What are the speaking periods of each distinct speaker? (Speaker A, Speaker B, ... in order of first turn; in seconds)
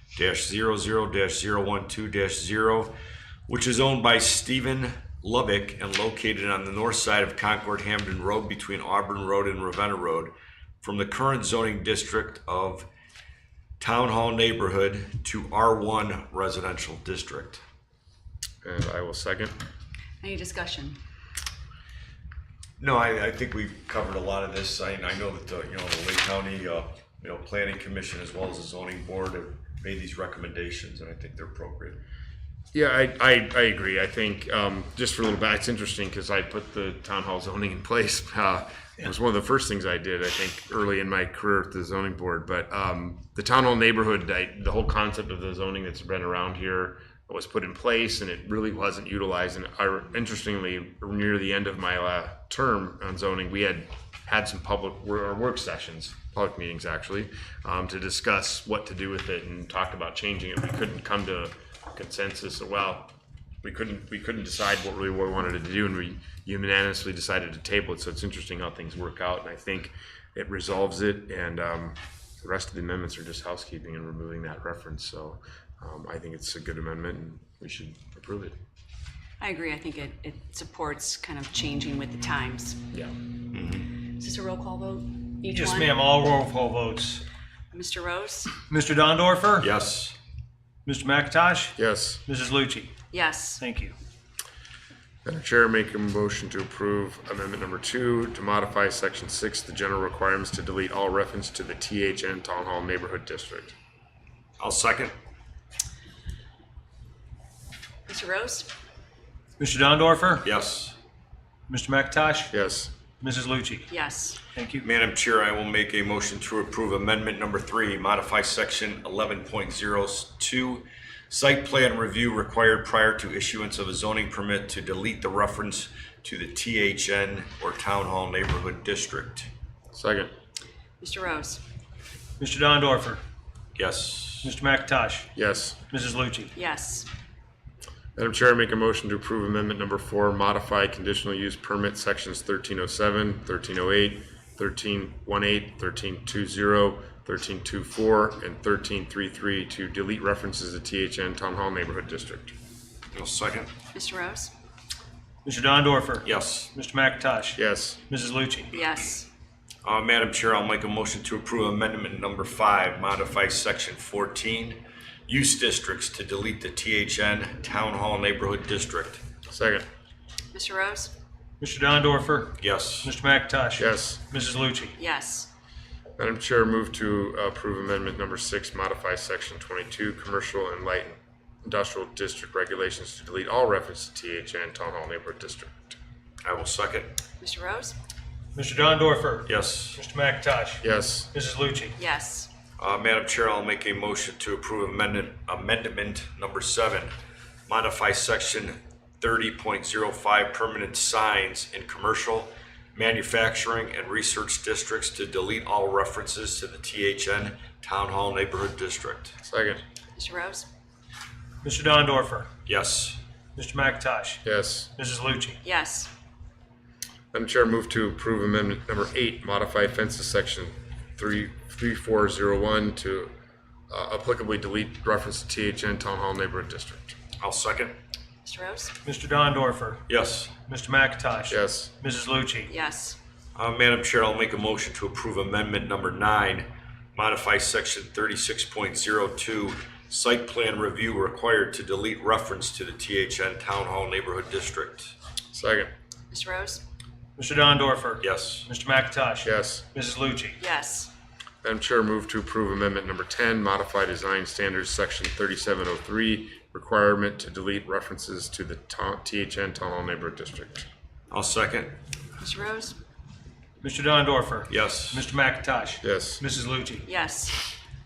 Speaker A: 0.1-3.0, 3.5-12.9, 13.8-17.6, 22.8-32.0, 83.5-83.9, 89.6-90.2, 104.6-105.1, 110.4-111.0, 114.8-129.5, 133.8-134.5, 153.1-153.7, 156.2-156.7, 159.8-169.2, 172.6-173.1, 186.4-187.1, 189.5-190.0, 192.8-197.1, 197.7-209.4, 212.7-213.2, 227.4-227.9, 230.1-230.6, 233.6-245.1, 248.2-248.7, 261.3-261.9, 264.7-265.2
Speaker B: 18.6-19.5, 32.7-78.5, 91.8-92.2, 95.2-103.8, 112.5-112.9, 129.9-130.3, 135.4-135.8, 138.2-152.5, 157.6-158.0, 169.5-169.8, 173.8-174.2, 176.2-185.9, 190.8-191.3, 209.4-209.8, 214.4-214.9, 217.3-223.3, 223.9-227.2, 231.5-231.9, 245.5-245.9, 249.4-249.9, 251.6-260.9, 266.0-266.4
Speaker C: 20.2-21.0, 79.4-82.8, 84.1-86.0, 87.7-88.5, 93.1-93.6, 108.1-108.7, 113.9-114.4, 131.0-131.6, 136.6-137.1, 153.9-154.5, 158.7-159.3, 170.5-171.1, 175.0-175.5, 187.4-188.0, 192.0-192.5, 210.2-210.7, 215.6-216.1, 228.4-228.9, 232.7-233.2, 246.3-246.8, 250.6-251.1, 262.4-263.0, 267.1-267.6
Speaker D: 85.5-87.2, 88.7-89.7, 90.9-92.9, 93.6-93.9, 109.6-110.5, 111.7-112.5, 113.2-113.9, 114.5-114.8, 132.4-133.2, 134.4-135.3, 135.9-136.5, 155.4-158.8, 171.6-175.0, 188.5-192.0, 211.6-212.5, 213.6-214.4, 215.0-215.6, 229.0-230.0, 230.7-232.7, 247.4-250.6, 263.8-267.1